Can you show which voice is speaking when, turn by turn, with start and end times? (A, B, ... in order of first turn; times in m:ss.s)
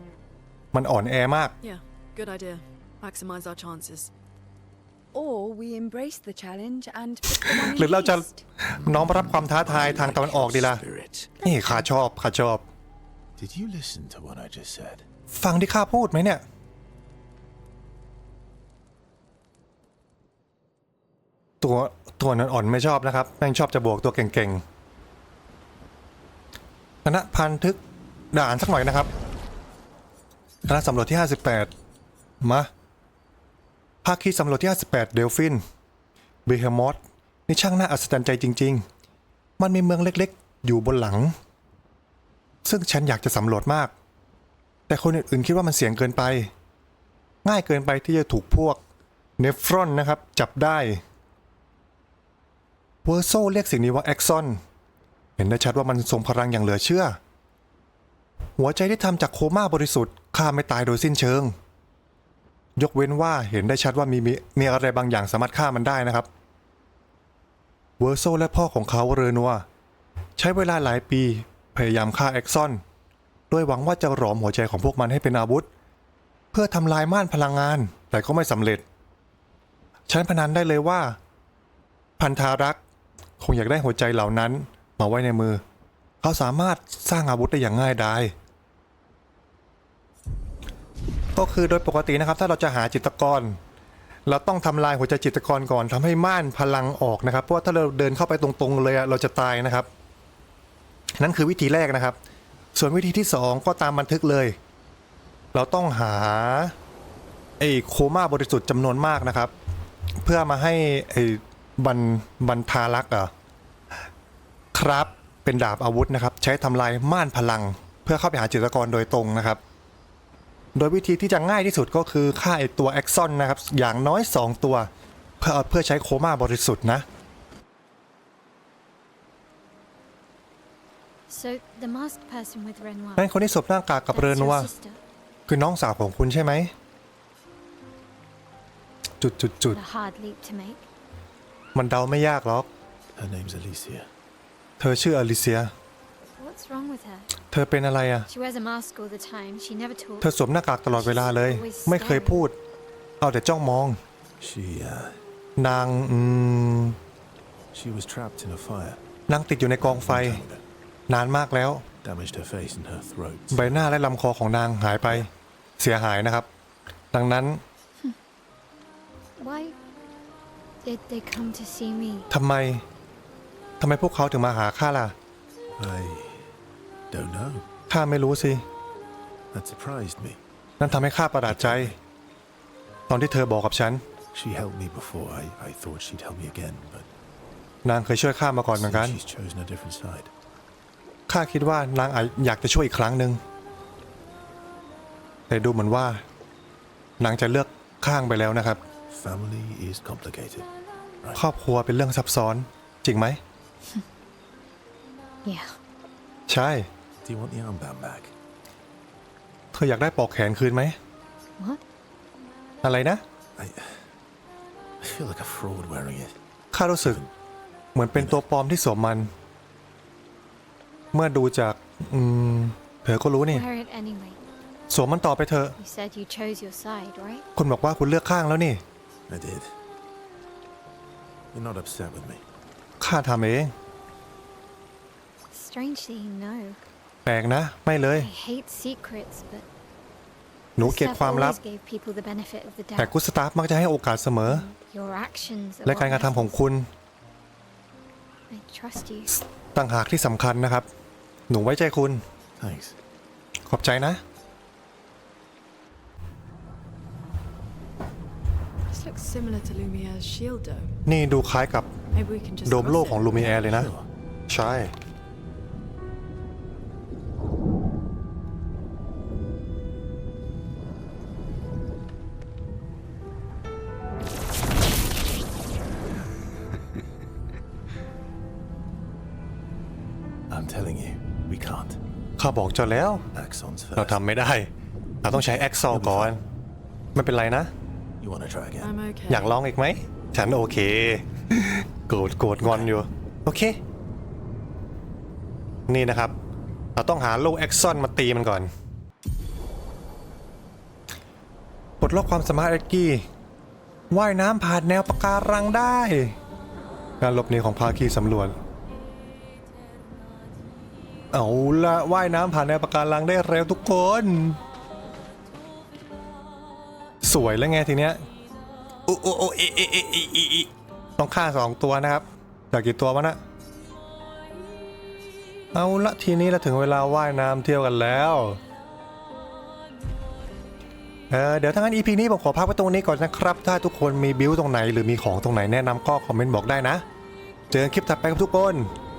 0:00.7-0:01.5 A
0:01.6-0:04.1 B
0:05.1-0:08.4 C
0:07.7-0:10.8 A
0:08.8-0:11.4 D
0:11.4-0:12.6 A
0:13.4-0:15.0 E
0:15.3-0:16.4 A
0:21.6-0:24.6 A
0:27.0-0:27.8 A
0:28.3-0:29.1 A
0:30.6-0:31.7 A
0:32.4-0:32.7 A
0:34.0-0:35.6 A
0:36.4-0:38.8 A
0:39.6-0:41.3 A
0:42.6-0:43.9 A
0:44.9-0:46.5 A
0:47.4-0:48.8 A
0:49.4-0:51.0 A
0:53.0-0:54.6 A
0:55.4-0:57.2 A
0:58.6-1:01.5 A
1:02.8-1:06.3 A
1:08.0-1:09.6 A
1:10.4-1:12.8 A
1:13.5-1:15.7 A
1:16.5-1:18.8 A
1:20.1-1:21.2 A
1:22.2-1:22.8 A
1:23.4-1:25.6 A
1:26.2-1:28.3 A
1:31.4-1:33.6 A
1:34.3-1:39.9 A
1:41.2-1:42.2 A
1:42.7-1:44.6 A
1:45.5-1:46.7 A
1:47.6-1:49.5 A
1:50.2-1:53.3 A
1:54.7-1:59.6 A
2:00.7-2:04.9 A
2:05.4-2:07.0 A
2:11.3-2:13.3 F
2:13.2-2:14.7 A
2:14.1-2:15.0 F
2:15.5-2:16.7 A
2:19.2-2:19.8 A
2:19.7-2:20.8 F
2:21.7-2:22.7 A
2:23.2-2:24.1 E
2:24.8-2:25.7 A
2:26.4-2:27.3 F
2:27.5-2:28.3 A
2:28.3-2:30.3 F
2:30.2-2:32.5 A
2:31.3-2:32.5 F
2:33.2-2:34.0 A
2:34.4-2:35.2 E
2:35.6-2:37.0 A
2:37.7-2:39.0 E
2:39.3-2:40.4 A
2:39.8-2:40.6 E
2:41.1-2:41.8 A
2:42.0-2:43.9 E
2:43.5-2:46.5 A
2:47.1-2:47.6 A
2:49.4-2:49.7 F
2:50.8-2:52.3 F
2:52.3-2:52.8 A
2:53.8-2:55.1 A
2:55.8-2:56.5 E
2:57.1-2:57.6 E
2:57.9-2:58.6 A
2:59.5-3:02.0 E
3:00.8-3:02.0 A
3:03.1-3:04.0 A
3:04.3-3:07.1 E
3:07.8-3:09.2 A
3:08.7-3:10.3 E
3:11.3-3:13.4 A
3:15.5-3:16.2 A
3:17.2-3:18.8 A
3:19.1-3:20.7 E
3:21.3-3:23.4 A
3:25.4-3:25.8 F
3:26.5-3:26.9 A
3:27.2-3:28.3 E
3:29.7-3:31.0 A
3:32.8-3:33.2 A
3:33.6-3:34.1 E
3:35.0-3:36.3 E
3:36.7-3:37.2 A
3:37.0-3:37.3 E
3:37.9-3:39.3 A
3:38.1-3:38.4 E
3:41.1-3:43.6 A
3:43.5-3:44.4 F
3:44.9-3:45.8 A
3:45.8-3:47.4 F
3:47.6-3:48.8 A
3:49.3-3:49.7 E
3:51.5-3:52.4 E
3:53.0-3:53.7 A
3:55.5-3:56.8 F
3:57.2-3:58.3 A
3:58.1-3:59.6 F
4:00.8-4:01.6 A
4:00.8-4:03.1 F
4:03.0-4:04.7 A
4:04.5-4:06.6 F
4:05.8-4:06.9 A
4:08.5-4:09.4 F
4:09.3-4:10.9 A
4:11.5-4:12.2 A
4:12.6-4:13.0 E
4:13.7-4:14.2 A
4:18.9-4:20.9 B
4:21.0-4:21.9 A
4:22.1-4:23.3 B
4:22.6-4:23.9 A
4:23.3-4:24.1 E
4:24.5-4:24.9 A
4:40.5-4:42.0 E
4:42.4-4:43.2 A
4:43.3-4:44.2 E
4:44.0-4:44.7 A
4:45.2-4:46.4 A
4:45.7-4:46.4 E
4:47.1-4:47.7 A
4:48.2-4:49.0 E
4:48.8-4:49.5 B
4:49.3-4:53.8 A
4:52.6-4:52.9 E
4:55.9-4:56.3 A
4:57.0-4:58.7 A
5:02.0-5:03.2 A
5:04.1-5:06.4 A
5:07.2-5:08.5 A
5:11.3-5:14.6 A
5:17.2-5:18.2 A
5:19.0-5:23.4 A
5:25.7-5:28.6 A
5:31.3-5:37.0 A
5:37.7-5:38.9 A